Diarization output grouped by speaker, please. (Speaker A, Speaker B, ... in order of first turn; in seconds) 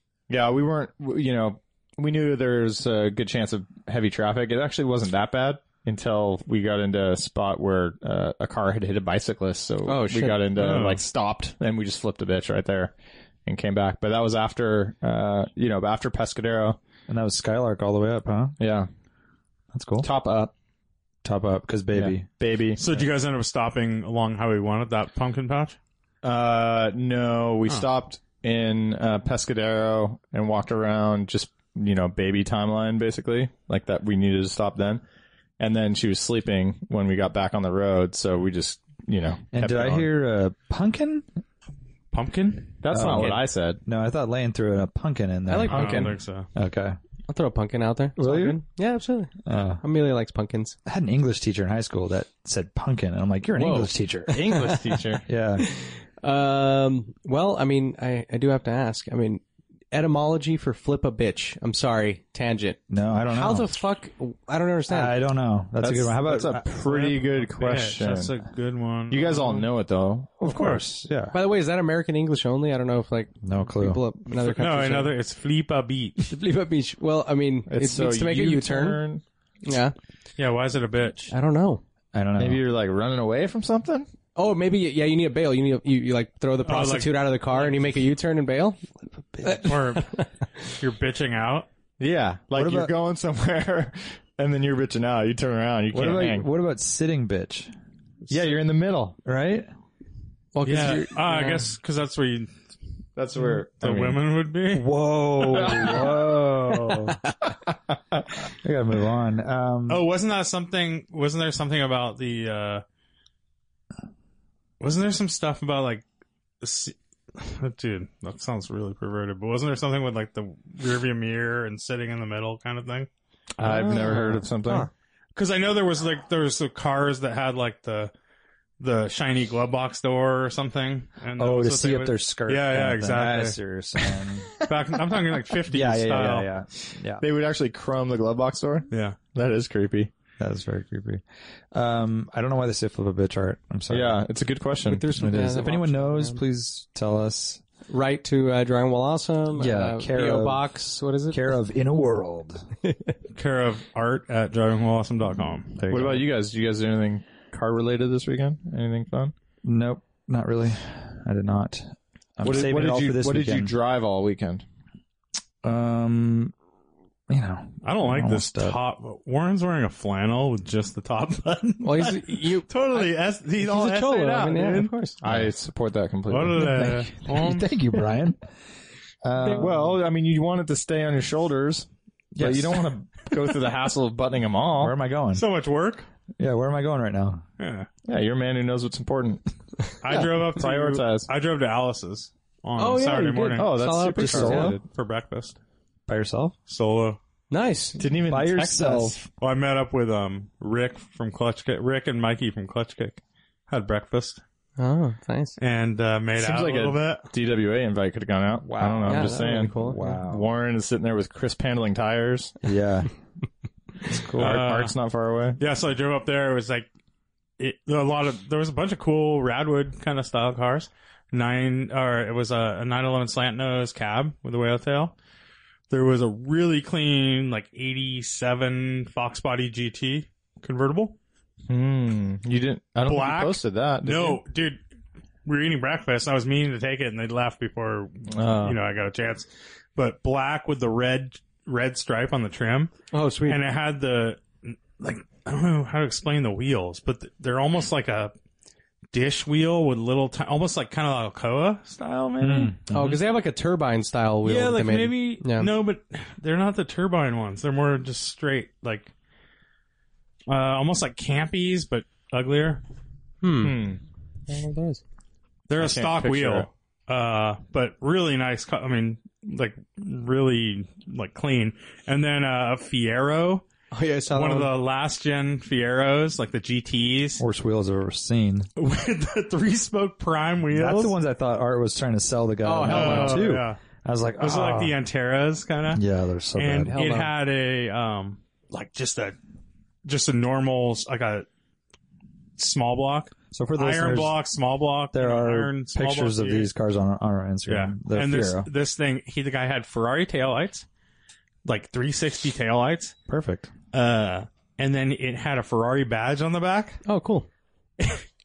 Speaker A: 0.3-12.9, 13.5-16.8, 18.6-18.9, 20.0-20.5, 22.0-22.8, 26.2-35.0, 35.6-40.1, 42.8-43.8, 54.3-55.3, 65.8-68.3, 69.1-70.5, 77.7-79.2, 82.4-84.1, 92.0-96.5, 98.3-99.2, 103.2-104.2, 105.5-106.2, 123.6-124.9, 137.2-140.1, 143.9-145.1, 155.9-159.3, 162.4-164.7, 175.2-176.7, 179.6-184.9, 188.1-189.4, 190.2-191.3, 193.6-194.8, 198.0-199.2, 206.4-212.6, 214.4-215.6, 231.7-234.4, 238.3-238.8, 263.6-264.0, 265.8-266.7
Speaker B: 9.8-10.4, 45.5-46.1, 47.3-50.8, 53.6-54.0, 55.6-65.2, 71.3-75.1, 76.2-79.0, 79.6-80.0, 81.3-81.8, 84.3-88.8, 89.4-90.3, 100.5-101.7, 107.0-107.3, 144.8-146.4, 147.9-151.6, 152.9-153.1, 171.8-175.2, 179.4-179.7, 192.8-194.8, 197.5-198.0, 204.8-205.6, 209.1-210.1, 243.1-243.6, 252.9-255.7, 263.4-263.8, 264.5-265.0, 273.9-274.7, 282.6-283.6, 286.9-287.3, 307.1-307.5
Speaker C: 10.6-11.0, 22.8-25.8, 42.1-43.4, 45.7-46.5, 66.6-69.7, 70.4-70.8, 74.3-76.2, 80.4-81.3, 86.6-87.8, 89.5-91.7, 100.7-102.5, 103.8-105.0, 109.9-112.8, 114.8-116.0, 116.6-123.1, 123.7-124.4, 125.3-128.1, 128.8-133.6, 134.6-136.5, 138.9-139.2, 153.3-155.9, 167.8-174.9, 176.3-177.8, 185.3-186.1, 187.6-187.9, 190.0-193.9, 194.4-195.6, 196.7-197.2, 199.4-204.4, 205.6-207.3, 214.4-215.0, 215.6-216.9, 217.6-225.1, 225.9-231.2, 233.1-234.8, 235.4-242.9, 243.5-248.3, 249.1-253.2, 254.4-259.1, 260.5-262.8, 265.7-273.6, 274.3-277.4, 278.8-281.1, 282.9-283.8, 284.4-286.0, 286.6-289.4, 290.1-291.5, 292.6-296.7, 297.7-300.9, 301.6-303.2, 303.9-307.0
Speaker D: 17.1-18.6, 19.7-20.1, 21.2-22.3, 39.5-41.3, 42.9-47.0, 48.2-48.6, 49.5-49.8, 50.9-54.6, 55.3-55.6, 62.9-63.8, 64.9-66.7, 70.4-71.3, 73.4-74.0, 82.1-82.6, 92.6-92.9, 95.9-97.7, 98.3-99.7, 104.7-107.2, 108.5-110.0, 124.0-124.4, 131.4-134.6, 135.7-137.2, 140.4-144.2, 145.1-147.6, 149.6-150.6, 151.3-152.6, 155.8-156.3, 159.7-163.7, 165.6-166.5, 167.3-168.8, 176.6-178.4, 179.2-180.0, 182.3-182.9, 184.8-185.4, 186.4-187.4, 194.2-194.8, 196.1-196.6, 198.2-199.3, 208.6-210.5, 212.6-213.1, 214.1-214.6, 252.4-253.1, 277.4-278.7, 280.7-284.9, 285.9-286.9, 293.5-294.4, 295.1-298.7, 303.3-303.7